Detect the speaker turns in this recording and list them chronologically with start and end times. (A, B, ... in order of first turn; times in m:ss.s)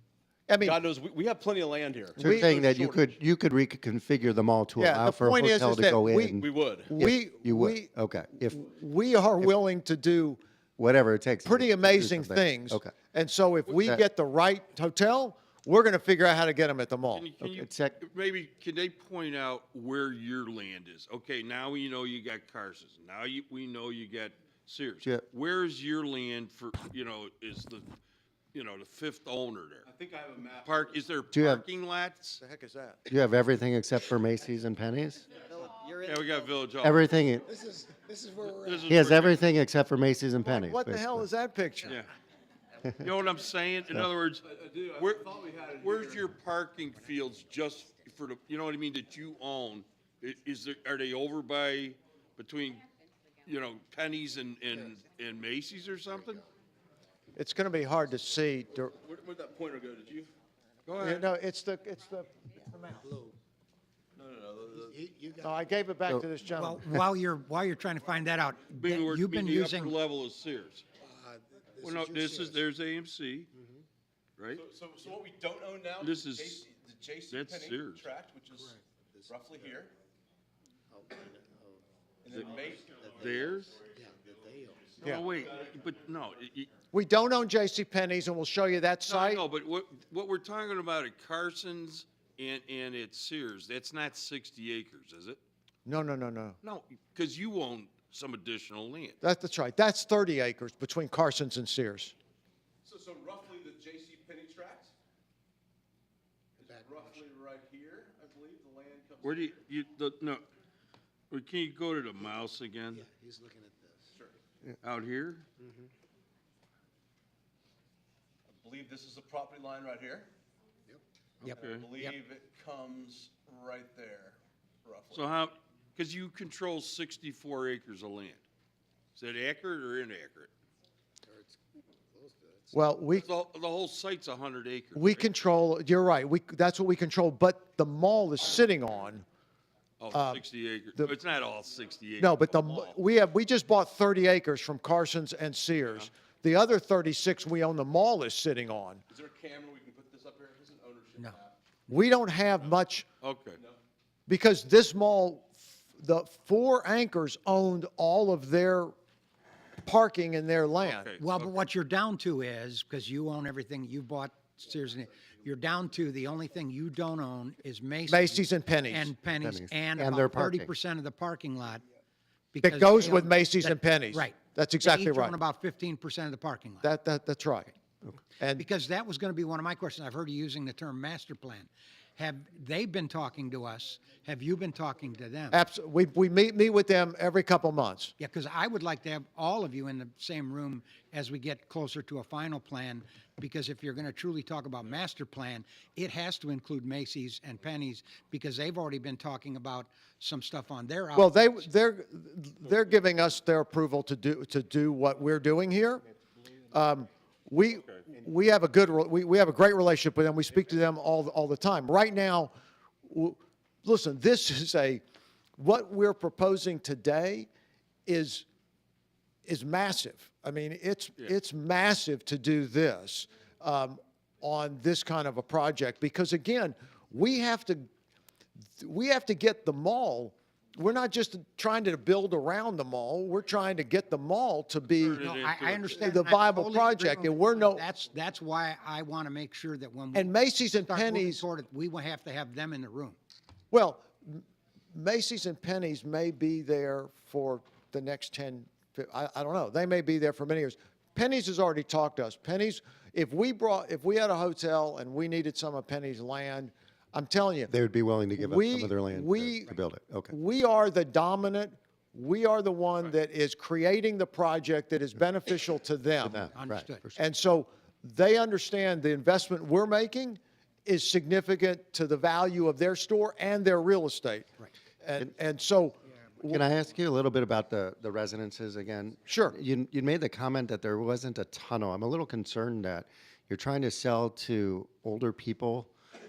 0:00.5-0:00.8 A
0:00.6-0:03.0 B
0:02.2-0:08.6 C
0:02.2-0:02.6 A
0:04.8-0:07.9 A
0:06.4-0:06.9 B
0:08.4-0:10.4 A
0:10.8-0:12.9 C
0:11.4-0:17.2 A
0:13.7-0:14.0 C
0:17.1-0:27.9 D
0:17.4-0:18.0 C
0:28.5-0:29.8 D
0:29.8-0:30.9 B
0:30.6-0:32.4 D
0:31.3-0:31.6 C
0:32.4-0:33.0 A
0:33.1-0:35.3 C
0:35.8-0:37.1 D
0:36.8-0:37.6 C
0:37.8-0:38.3 E
0:38.4-0:39.4 D
0:38.8-0:41.3 C
0:40.4-0:42.0 A
0:41.8-0:42.1 D
0:43.0-0:44.4 D
0:44.4-0:46.2 B
0:45.0-0:45.2 D
0:45.8-0:52.9 D
0:53.4-0:56.4 D
0:57.4-0:58.9 A
0:59.0-1:00.3 B
1:00.8-1:01.3 D
1:01.0-1:03.1 A
1:04.2-1:05.0 B
1:05.4-1:06.9 A
1:06.5-1:10.0 F
1:08.7-1:10.8 D
1:11.3-1:12.5 E
1:11.8-1:13.5 D
1:14.4-1:14.6 D
1:14.5-1:19.9 B
1:16.0-1:16.6 D
1:17.3-1:18.0 D
1:20.9-1:21.8 E
1:22.2-1:23.0 B
1:22.3-1:23.8 D
1:23.0-1:23.4 E
1:24.0-1:24.8 E
1:25.0-1:26.7 D
1:25.0-1:25.3 A
1:26.9-1:29.4 A
1:29.1-1:35.4 D
1:35.8-1:36.6 A
1:36.6-1:39.2 D
1:39.2-1:42.1 A
1:42.8-1:44.9 B
1:46.6-1:49.5 B
1:49.2-1:50.4 D
1:51.3-1:53.1 D
1:53.1-1:53.9 E
1:54.8-1:55.4 D
1:58.5-2:00.3 B
2:01.4-2:02.2 F
2:01.4-2:01.9 D
2:01.5-2:05.2 B
2:05.1-2:08.4 D
2:09.2-2:10.5 D
2:12.1-2:12.7 E
2:12.7-2:13.3 A
2:13.1-2:15.4 D
2:15.0-2:19.2 A
2:20.0-2:23.0 D
2:20.1-2:20.4 A
2:22.2-2:29.0 A
2:29.1-2:31.5 B
2:31.9-2:33.0 A
2:33.2-2:33.6 D
2:34.3-2:38.9 A
2:39.8-2:41.1 A
2:40.8-2:41.5 D
2:41.2-2:51.8 F
2:48.1-2:49.1 A
2:49.3-2:50.7 C
2:52.5-2:56.9 F
2:52.6-2:55.4 A
2:56.8-2:57.7 A
2:58.4-2:58.6 A
2:58.6-3:05.6 F
3:05.5-3:08.1 A
3:08.2-3:21.4 F
3:21.1-3:26.0 A
3:26.7-3:32.5 A
3:27.7-3:28.0 D
3:33.0-3:35.0 A
3:35.6-3:37.5 A
3:38.0-3:38.4 A
3:39.4-3:47.9 A
3:48.8-3:55.3 A
3:55.0-3:56.1 D
3:55.2-4:03.2 F
3:56.0-3:57.8 A
4:00.1-4:01.4 A
4:03.7-4:17.7 A
4:17.7-4:20.3 C
4:18.4-4:19.8 A
4:20.3-4:26.5 A
4:26.2-4:27.2 C
4:26.5-4:27.0 F
4:27.1-4:34.5 A
4:35.0-4:36.6 A
4:36.5-4:45.9 C
4:39.3-4:39.6 A